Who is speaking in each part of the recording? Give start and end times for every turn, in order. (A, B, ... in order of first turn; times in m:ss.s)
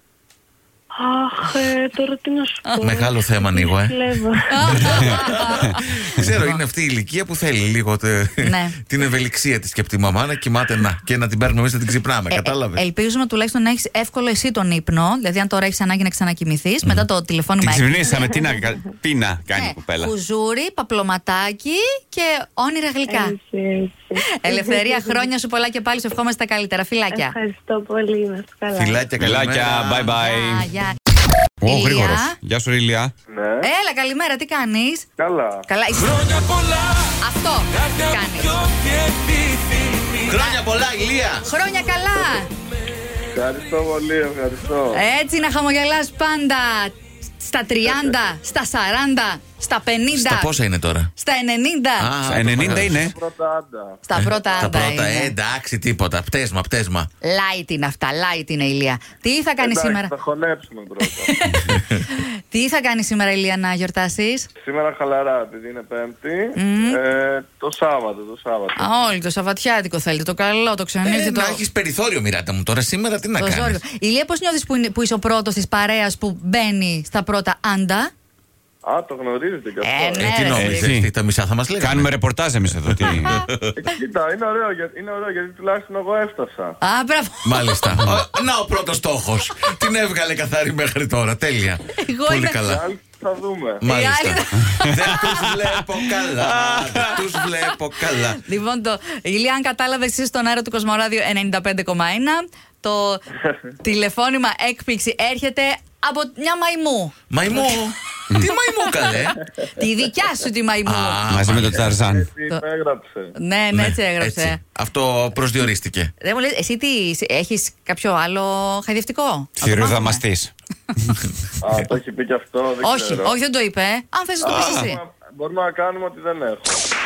0:01.0-0:04.9 A
0:02.8-0:12.8 B
0:04.5-0:05.8 C
0:08.4-0:08.8 C
0:12.3-0:17.9 C
0:17.6-0:20.1 D
0:18.2-0:18.7 A
0:19.5-0:23.4 C
0:23.1-0:25.3 A
0:24.4-0:27.4 C
0:27.1-0:29.1 A
0:28.7-0:30.1 B
0:29.2-0:30.7 D
0:30.2-0:31.0 C
0:31.6-0:33.1 D
0:31.7-0:32.4 C
0:33.3-0:33.7 E
0:33.6-0:35.1 C
0:35.2-0:35.6 E
0:35.7-0:38.6 C
0:40.2-0:41.4 B
0:41.4-0:42.5 C
0:43.3-0:45.0 E
0:44.9-0:50.5 C
0:50.1-0:51.1 B
0:51.2-0:52.1 C
0:52.0-0:53.0 B
0:52.2-0:53.2 D
0:52.6-0:54.0 E
0:54.1-0:55.3 C
0:54.2-0:57.1 B
0:57.2-1:00.1 C
0:59.6-1:01.4 E
1:01.3-1:04.5 C
1:01.7-1:02.0 B
1:04.6-1:08.9 E
1:06.6-1:07.0 C
1:08.8-1:11.6 C
1:11.0-1:13.8 B
1:13.4-1:18.1 C
1:18.8-1:20.4 E
1:19.8-1:20.9 C
1:20.2-1:22.1 B
1:20.5-1:21.1 D
1:21.8-1:23.4 D
1:22.9-1:23.7 B
1:23.1-1:23.4 C
1:23.8-1:26.8 E
1:26.8-1:28.1 C
1:27.4-1:32.8 B
1:32.0-1:32.6 C
1:32.6-1:33.8 E
1:33.8-1:38.4 B
1:33.8-1:35.5 C
1:36.5-1:37.2 D
1:38.4-1:43.2 C
1:43.8-1:47.2 C
1:47.3-1:49.4 B
1:49.7-1:51.2 C
1:50.9-1:52.0 B
1:51.3-1:52.3 D
1:52.0-1:53.3 E
1:53.4-1:54.6 C
1:53.7-1:56.1 B
1:56.2-2:00.2 C
1:59.6-2:00.5 D
2:01.6-2:03.4 E
2:02.8-2:05.0 C
2:04.4-2:06.8 E
2:04.5-2:04.9 D